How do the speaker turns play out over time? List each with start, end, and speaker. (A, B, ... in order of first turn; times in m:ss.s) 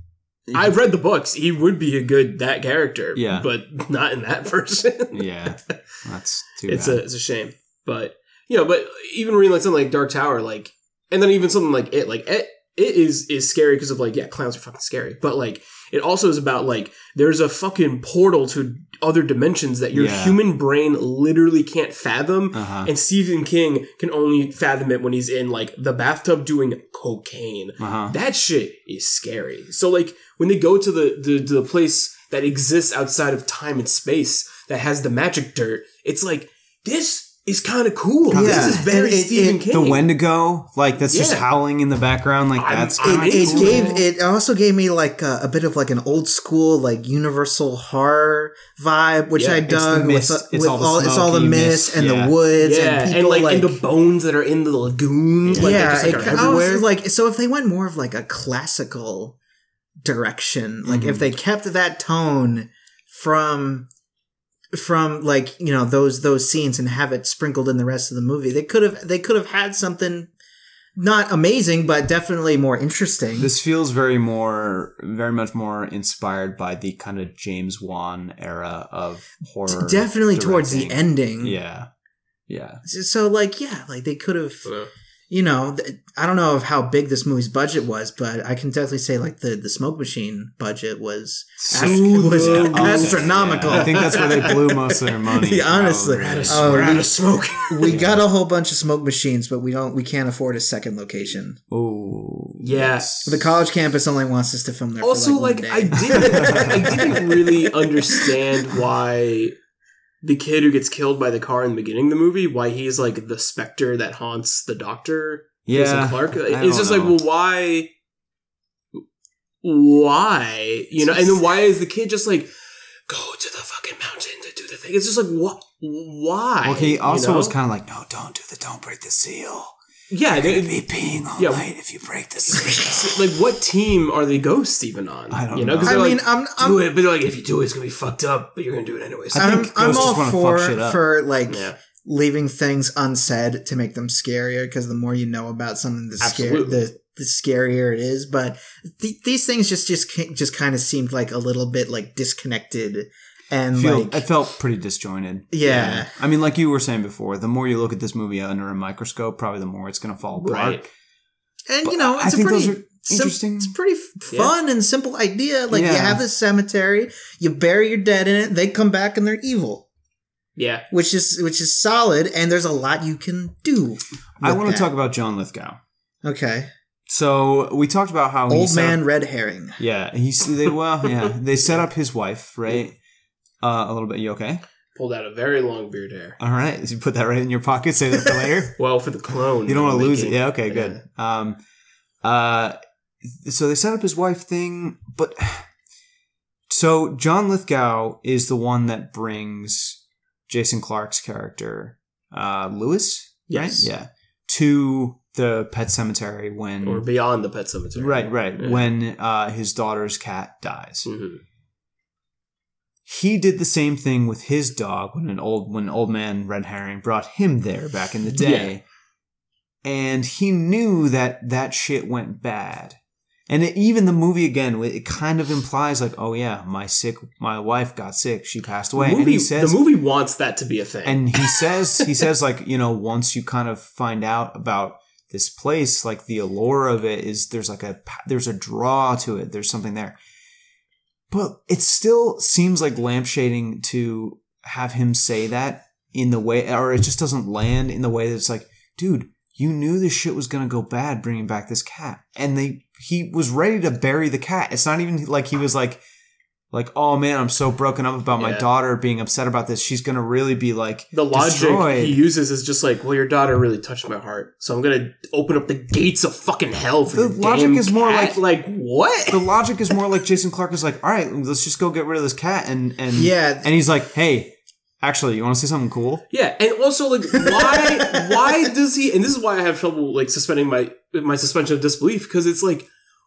0:00.5-0:00.7 A
0:00.5-0:05.3 B
0:03.2-0:03.5 A
0:05.1-0:07.0 A
0:06.6-0:40.1 B
0:19.9-0:20.4 A
0:22.5-0:22.9 A
0:27.8-0:28.2 A
0:38.3-0:38.8 A
0:38.3-0:39.6 C
0:39.7-0:44.0 A
0:41.1-0:41.5 B
0:42.6-0:44.0 B
0:43.0-0:53.8 C
0:49.4-0:49.6 B
0:49.7-0:52.4 A
0:52.6-0:56.8 B
0:55.4-0:56.8 A
0:55.6-0:59.4 C
1:00.0-1:03.9 C
1:00.8-1:01.3 A
1:04.7-1:10.3 C
1:11.0-1:13.5 C
1:13.4-1:21.9 A
1:19.7-1:21.6 C
1:22.5-1:22.8 A
1:22.8-1:24.7 C
1:24.6-1:24.9 B
1:25.3-1:34.6 C
1:31.6-1:35.0 B
1:31.7-1:37.1 A
1:35.3-1:41.6 C
1:36.1-1:37.8 B
1:37.8-1:38.2 A
1:41.7-1:43.6 A
1:42.6-1:43.1 B
1:43.2-1:47.2 C
1:45.0-1:49.6 B
1:46.0-1:47.5 A
1:50.2-1:57.9 B
1:55.7-1:57.2 A
1:59.6-2:02.5 B
2:03.1-2:07.6 B
2:06.6-2:09.8 A
2:10.1-2:10.7 B
2:10.3-2:13.1 A
2:11.4-2:11.7 B
2:12.5-2:20.1 B
2:15.3-2:16.1 A
2:15.8-2:16.8 C
2:19.3-2:21.0 A
2:19.4-2:34.2 C
2:21.5-2:21.8 B
2:26.2-2:26.8 B
2:33.7-2:40.9 A
2:35.5-2:36.1 C
2:40.4-2:40.8 B
2:41.7-2:49.9 C
2:41.8-2:43.7 A
2:45.7-2:46.2 A
2:50.6-2:50.9 B
2:50.9-2:54.9 C
2:54.4-2:55.8 A
2:56.2-2:56.7 C
2:57.1-2:59.0 A
2:58.5-2:59.8 C
2:59.8-3:03.0 A
3:03.6-3:04.6 A
3:05.0-3:06.4 B
3:06.4-3:08.8 A
3:08.8-3:11.0 B
3:09.7-3:11.6 A
3:12.2-3:15.7 A
3:16.7-3:27.0 A
3:23.5-3:23.9 B
3:26.8-3:28.9 B
3:28.0-3:31.1 A
3:31.0-3:31.4 B
3:33.1-3:38.8 A
3:38.4-3:38.7 B
3:39.8-3:49.8 A
3:49.0-3:52.0 B
3:51.0-4:00.2 A
4:01.3-4:16.0 A
4:16.7-4:22.2 A
4:18.4-4:18.6 B
4:21.1-4:29.5 B
4:27.1-4:28.4 A
4:29.3-4:36.2 A
4:33.1-4:33.7 C
4:36.3-4:42.9 B
4:37.5-4:38.5 C